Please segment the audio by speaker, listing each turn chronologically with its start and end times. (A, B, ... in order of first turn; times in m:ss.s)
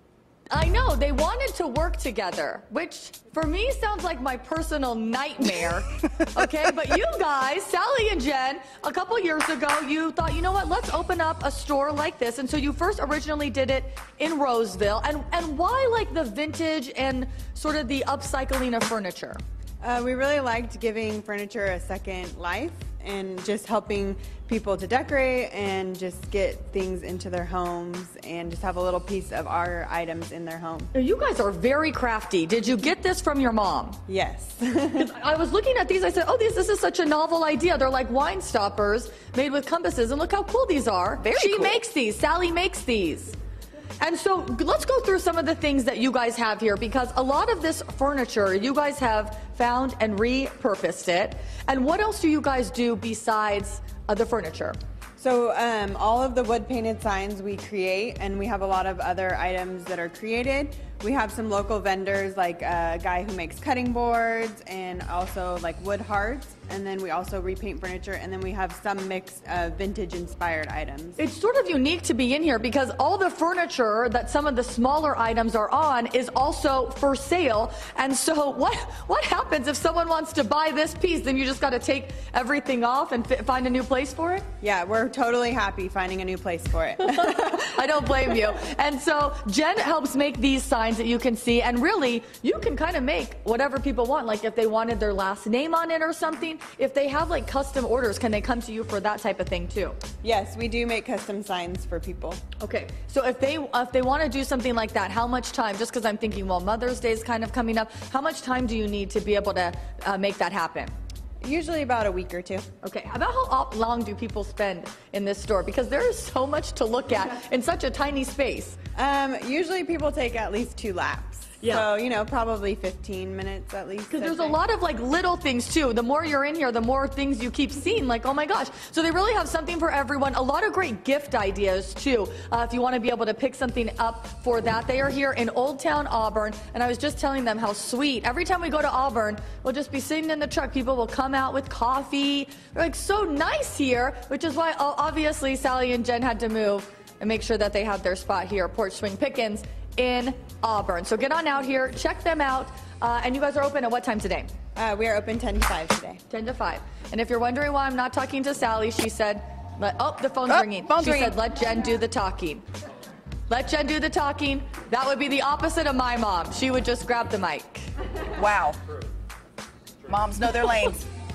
0:00.5-0:19.4 A
0:19.8-0:30.9 B
0:30.9-0:34.0 A
0:34.1-0:35.1 B
0:35.0-0:43.4 A
0:41.4-0:41.8 C
0:44.0-0:54.8 A
0:55.2-1:11.2 B
1:11.2-1:24.4 A
1:24.6-1:27.7 B
1:27.0-1:40.0 A
1:40.2-1:42.4 B
1:42.6-1:50.9 A
1:51.4-1:52.7 B
1:52.8-1:58.8 A
1:59.0-2:04.6 B
2:01.6-2:01.9 A
2:04.1-2:34.5 A
2:34.8-2:36.2 B
2:36.3-2:42.6 A
2:40.5-2:41.4 C
2:43.5-2:47.9 A
2:48.3-2:48.8 C
2:50.0-2:51.1 C